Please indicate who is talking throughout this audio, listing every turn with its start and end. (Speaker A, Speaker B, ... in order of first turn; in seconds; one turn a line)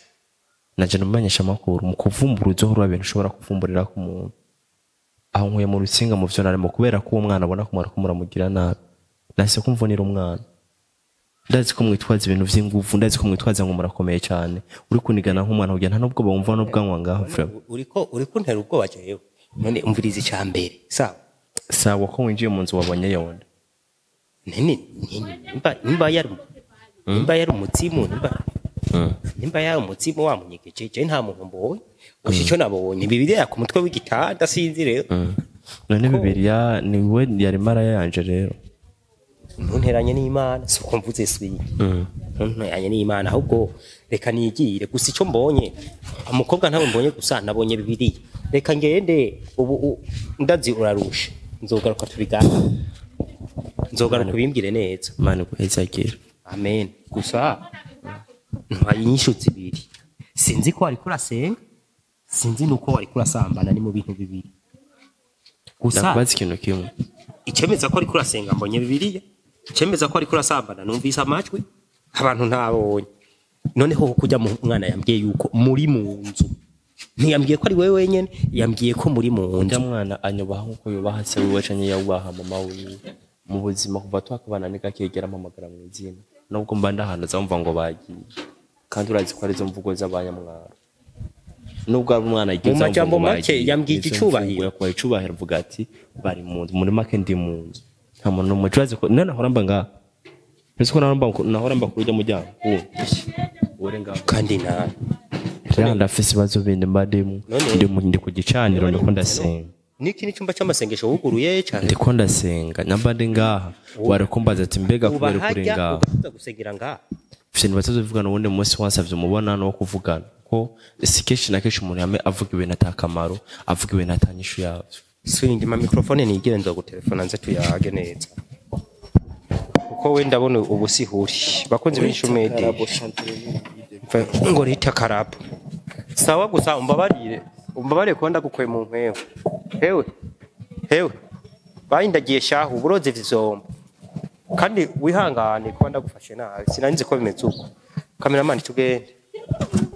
Speaker A: 0.8-4.3
Speaker A: 5.3-8.8
Speaker A: 9.4-10.4
Speaker A: 11.5-17.5
Speaker B: 16.6-21.2
Speaker A: 21.7-23.4
Speaker B: 24.5-26.4
Speaker B: 27.1-28.3
Speaker A: 28.9-29.2
Speaker B: 29.3-35.1
Speaker A: 32.2-32.5
Speaker A: 35.1-38.6
Speaker B: 36.0-36.4
Speaker B: 39.6-41.7
Speaker A: 41.8-42.1
Speaker B: 42.2-45.7
Speaker B: 46.3-52.5
Speaker B: 53.9-55.1
Speaker A: 54.1-54.4
Speaker A: 55.2-56.2
Speaker B: 56.5-57.6
Speaker B: 58.7-61.6
Speaker B: 62.3-64.5
Speaker B: 65.8-66.2
Speaker A: 65.9-66.9
Speaker B: 67.5-73.0
Speaker B: 73.8-76.5
Speaker B: 77.2-79.8
Speaker A: 79.6-88.2
Speaker A: 88.9-90.8
Speaker A: 91.9-99.9
Speaker B: 92.6-94.7
Speaker A: 100.8-103.2
Speaker A: 103.8-104.4
Speaker B: 104.2-104.9
Speaker A: 105.7-109.7
Speaker B: 105.7-106.1
Speaker B: 107.5-107.9
Speaker B: 108.7-112.0
Speaker A: 111.8-116.0
Speaker B: 114.0-114.3
Speaker B: 115.0-117.0
Speaker A: 117.5-125.0
Speaker B: 125.2-128.3
Speaker B: 129.9-132.8
Speaker A: 131.9-134.6
Speaker B: 134.1-135.4
Speaker B: 136.1-139.2
Speaker B: 139.8-140.1
Speaker B: 141.9-143.6
Speaker B: 144.5-147.6
Speaker B: 148.2-149.1